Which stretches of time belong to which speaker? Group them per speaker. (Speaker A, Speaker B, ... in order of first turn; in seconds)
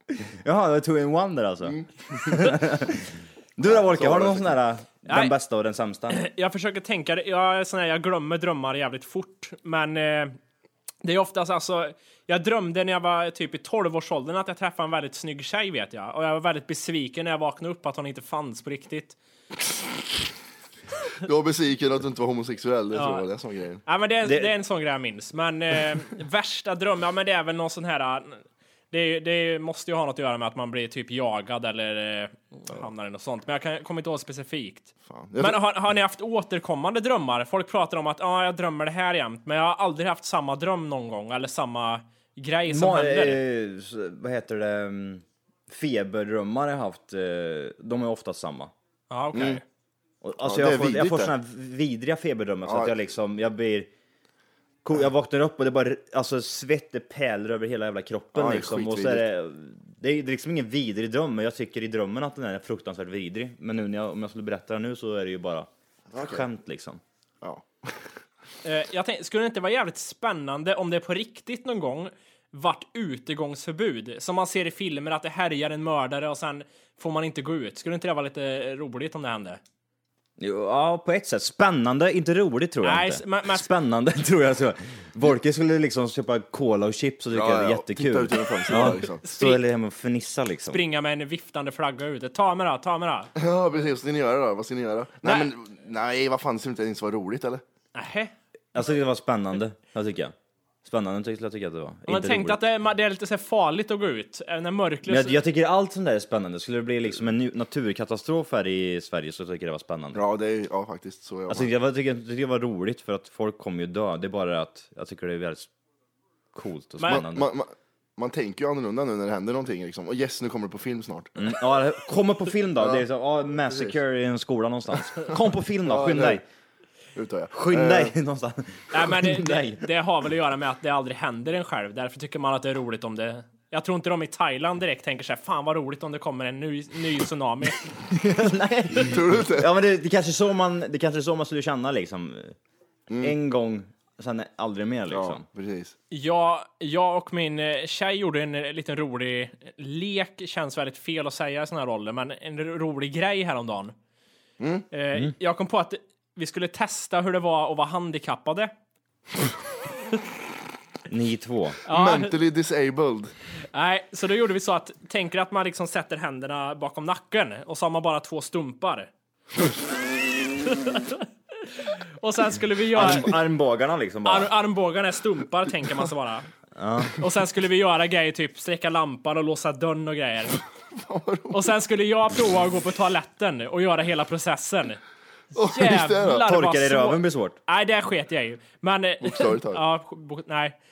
Speaker A: 0.2-6.2, 24.2-24.5, 42.7-48.7, 50.2-53.9, 54.8-67.0, 80.4-90.8, 98.7-100.3, 100.8-102.6, 105.1-110.2, 111.5-115.7, 116.5-117.5, 121.4-126.4, 127.5-129.9, 138.1-142.6, 143.2-145.4, 161.1-161.8, 172.9-174.5, 176.8-177.2, 186.4-187.6
Speaker B: 1.7-2.6, 3.6-4.5, 21.2-23.8, 35.1-35.6, 49.3-49.6, 50.4-51.3, 52.6-52.9, 58.3-59.2, 66.1-66.4, 67.4-68.0, 87.3-89.2, 93.4-97.6, 110.1-111.7, 117.1-121.4, 122.8-123.0, 123.7-123.9, 125.8-126.4, 127.1-128.1, 138.9-139.7, 143.1-143.3, 145.1-145.9, 154.6-154.8, 161.9-163.3, 180.9-181.7, 185.5-186.4, 189.2-189.8
Speaker C: 5.1-5.3, 6.1-10.4, 11.0-19.1, 22.9-23.2, 23.9-43.4, 49.1-49.6, 68.6-79.6, 82.8-83.7, 88.8-89.6, 90.7-93.3, 97.9-98.3, 102.1-105.4, 128.9-137.8, 146.1-153.9, 154.9-158.7, 161.8-162.3, 163.7-169.1, 170.6-173.4, 174.2-176.5, 177.2-180.6, 181.5-185.0, 185.6-190.7